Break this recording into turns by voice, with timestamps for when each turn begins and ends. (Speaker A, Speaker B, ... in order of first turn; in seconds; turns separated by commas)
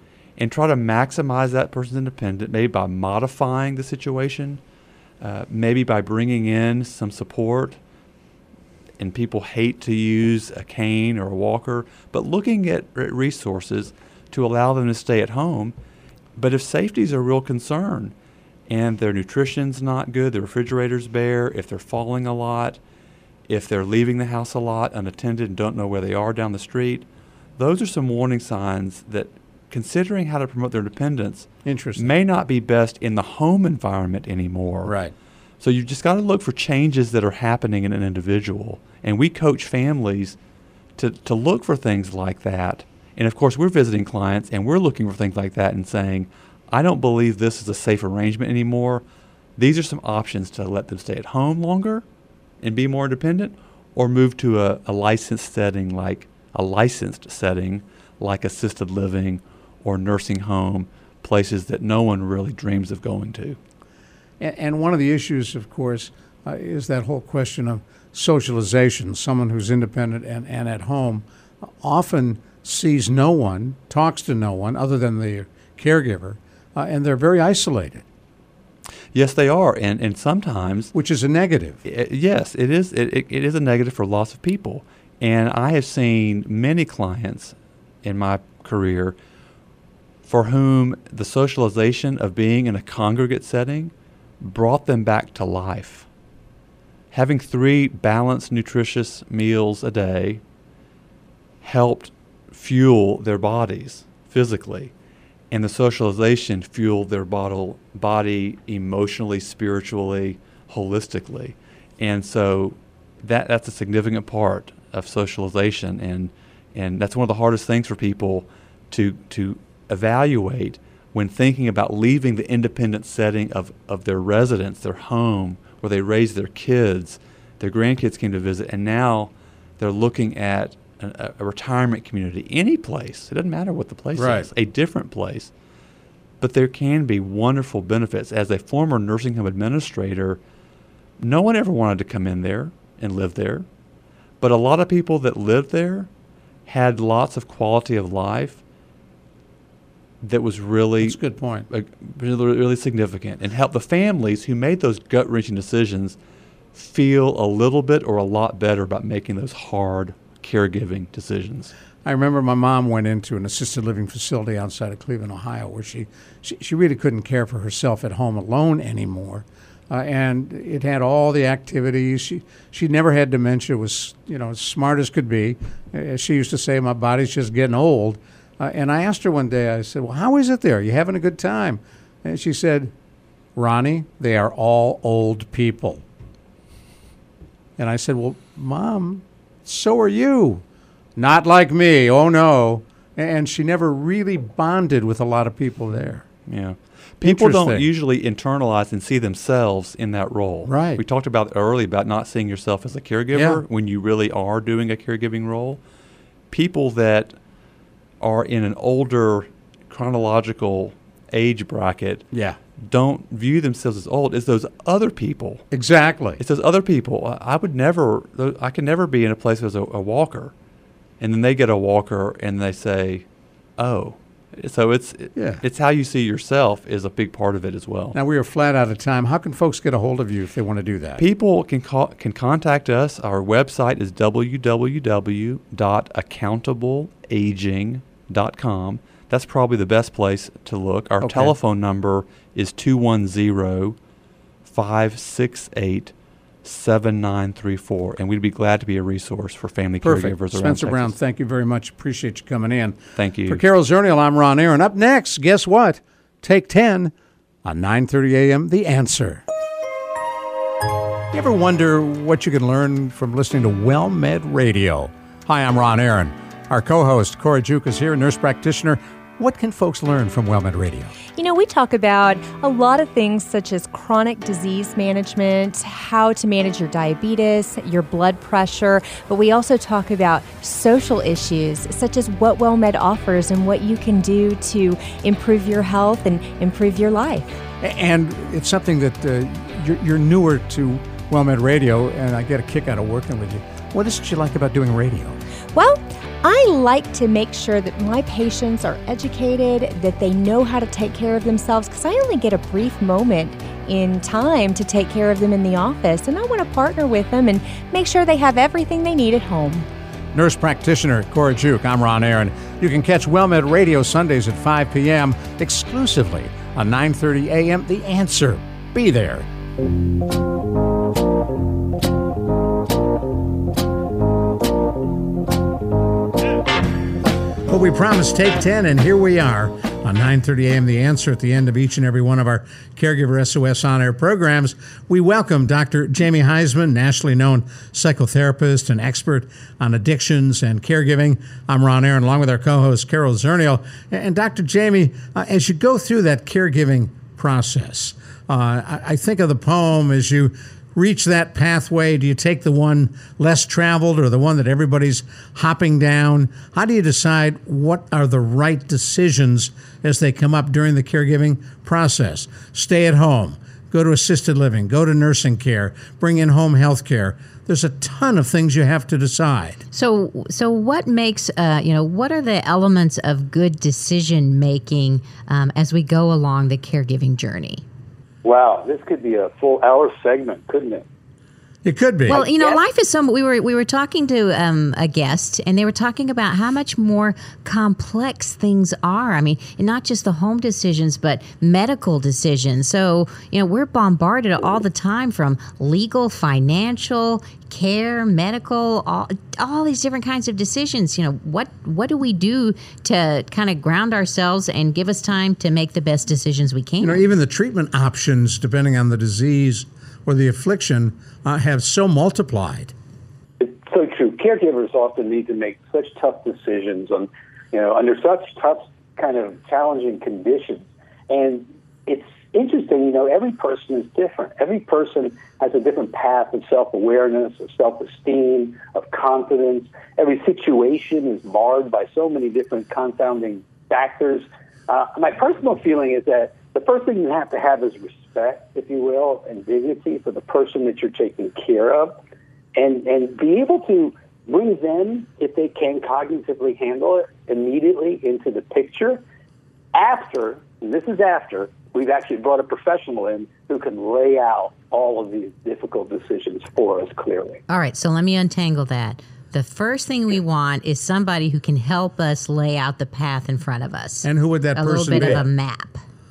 Speaker A: 0.4-4.6, Speaker A: 5.2-7.8, Speaker A: 9.0-15.7, Speaker A: 16.4-18.1, Speaker A: 18.7-22.8, Speaker A: 23.5-27.1, Speaker A: 27.6-34.9, Speaker B: 31.6-32.1, Speaker B: 34.8-35.1, Speaker A: 35.6-40.4, Speaker A: 41.0-49.0, Speaker A: 49.6-52.0, Speaker A: 52.6-63.6, Speaker B: 64.4-78.0, Speaker A: 79.1-80.9, Speaker B: 80.9-81.8, Speaker A: 81.8-89.2, Speaker A: 90.2-96.1, Speaker A: 97.1-100.4, Speaker A: 101.6-104.9, Speaker A: 105.5-135.5, Speaker B: 134.1-134.5, Speaker A: 136.4-140.4, Speaker A: 141.2-143.7, Speaker A: 144.4-146.1, Speaker A: 146.7-148.6, Speaker A: 150.2-156.2, Speaker B: 151.0-151.7, Speaker A: 156.7-161.7, Speaker B: 162.0-182.9, Speaker B: 183.6-186.0, Speaker B: 187.8-190.6, Speaker B: 191.2-196.2, Speaker A: 196.5-205.8, Speaker B: 197.2-197.9, Speaker B: 200.6-201.0, Speaker B: 203.3-203.6, Speaker A: 206.5-207.3, Speaker A: 208.2-212.3, Speaker B: 212.3-212.6, Speaker A: 212.8-215.7, Speaker B: 215.7-216.4, Speaker A: 216.4-220.5, Speaker A: 221.2-223.2, Speaker A: 223.8-228.2, Speaker B: 225.3-225.6, Speaker B: 228.1-231.2, Speaker A: 231.2-243.9, Speaker B: 241.2-241.5, Speaker A: 244.6-246.1, Speaker A: 246.6-251.1, Speaker B: 250.0-257.1, Speaker A: 253.2-253.6, Speaker B: 257.6-259.4, Speaker B: 261.3-271.1, Speaker C: 271.4-287.6, Speaker B: 287.8-295.4, Speaker C: 295.7-309.9, Speaker B: 310.3-319.5, Speaker B: 327.7-369.8, Speaker D: 369.9-377.8, Speaker E: 378.4-381.1, Speaker B: 381.8-382.4, Speaker D: 382.3-407.2, Speaker E: 382.3-382.8, Speaker B: 407.0-412.9, Speaker E: 413.6-442.2, Speaker E: 442.7-449.2, Speaker E: 449.9-457.6, Speaker D: 457.7-466.0, Speaker B: 464.2-465.4